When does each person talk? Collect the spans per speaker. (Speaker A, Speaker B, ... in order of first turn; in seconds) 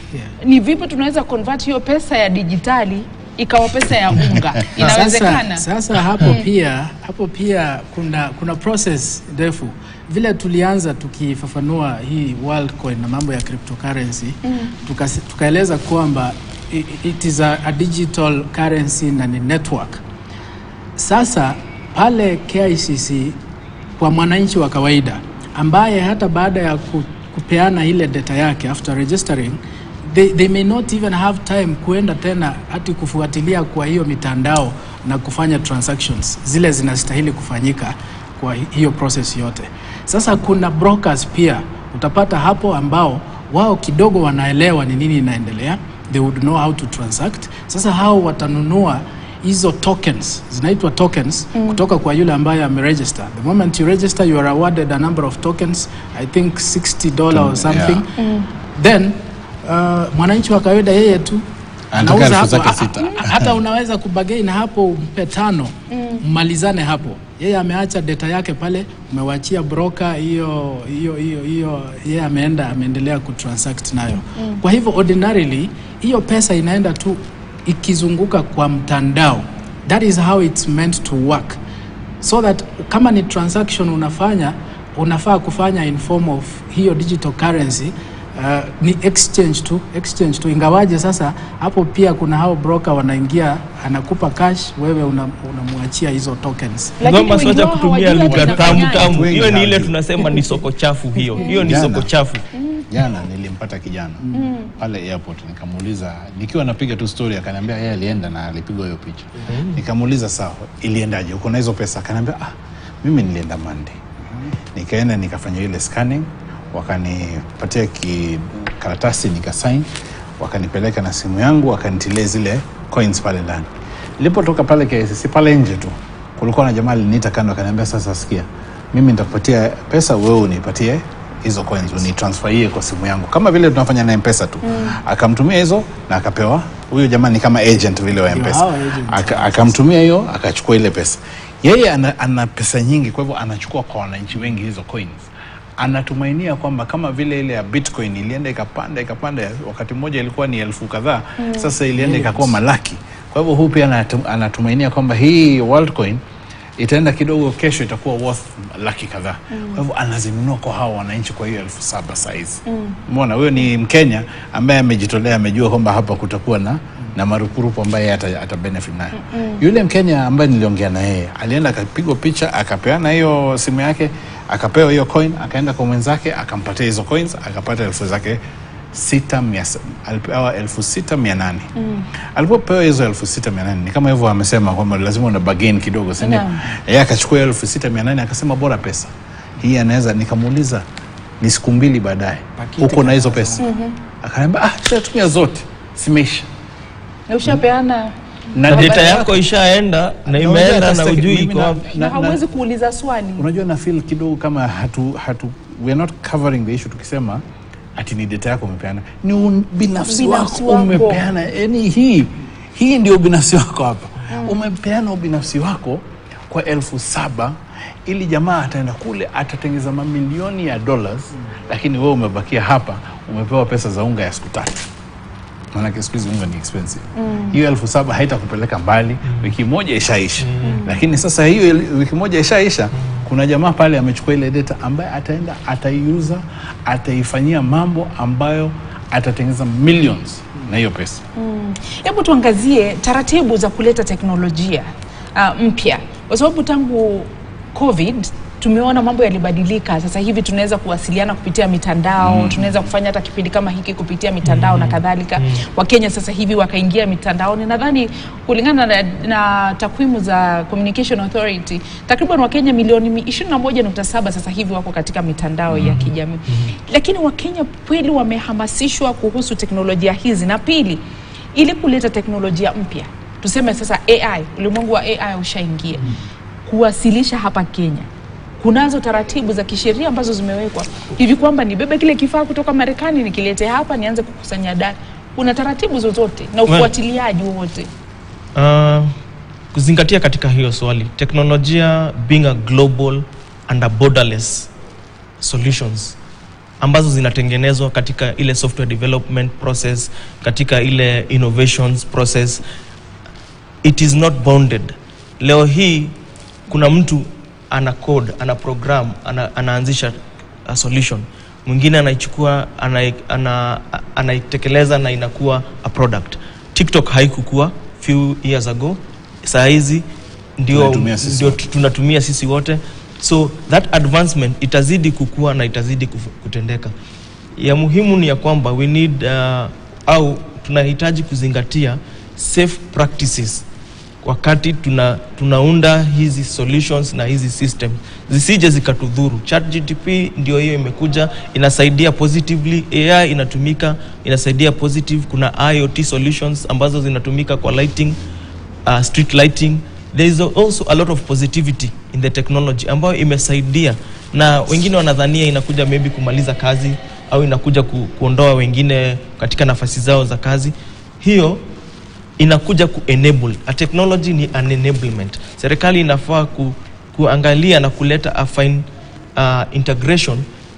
Speaker A: 0.4-5.7, 6.2-6.5, 14.5-14.7, 51.5-51.8, 58.2-58.5, 65.9-66.2, 74.3-74.6, 97.0-99.3, 101.4-101.7, 102.5-102.9, 104.3-104.7, 151.4-151.7, 159.5-159.8, 162.7-163.0, 169.2-169.6, 181.8-182.1, 186.2-186.6, 193.6-194.0, 197.3-199.2, 201.9-203.5, 210.1-211.3, 214.3-214.6, 227.2-227.6, 230.6-231.0, 241.4-271.0, 271.6-278.1, 278.6-287.9
Speaker B: 4.7-20.0, 21.0-23.4, 24.0-58.1, 58.8-61.5, 62.0-81.6, 82.2-97.0, 138.3-139.8, 151.9-152.6, 192.6-193.7
Speaker C: 57.3-58.0, 61.9-63.6, 98.2-100.0, 101.6-102.1, 102.9-114.0, 114.8-119.9, 120.4-123.7, 124.2-156.2, 156.8-178.4, 178.9-181.7, 182.3-190.8, 191.4-193.6, 194.2-196.5, 198.5-199.4, 200.3-202.4, 203.4-207.4, 208.0-217.6, 218.1-224.9, 225.7-241.2, 252.2-252.7, 320.7-321.6
Speaker D: 97.0-102.4, 109.5-109.8, 198.7-201.8, 230.4-230.8, 254.4-255.6, 288.6-289.1, 289.7-294.7, 295.4-296.2, 296.8-302.6, 303.8-306.1, 306.7-320.0, 320.6-326.9, 327.6-333.6, 334.2-348.2, 348.9-361.6, 362.4-370.4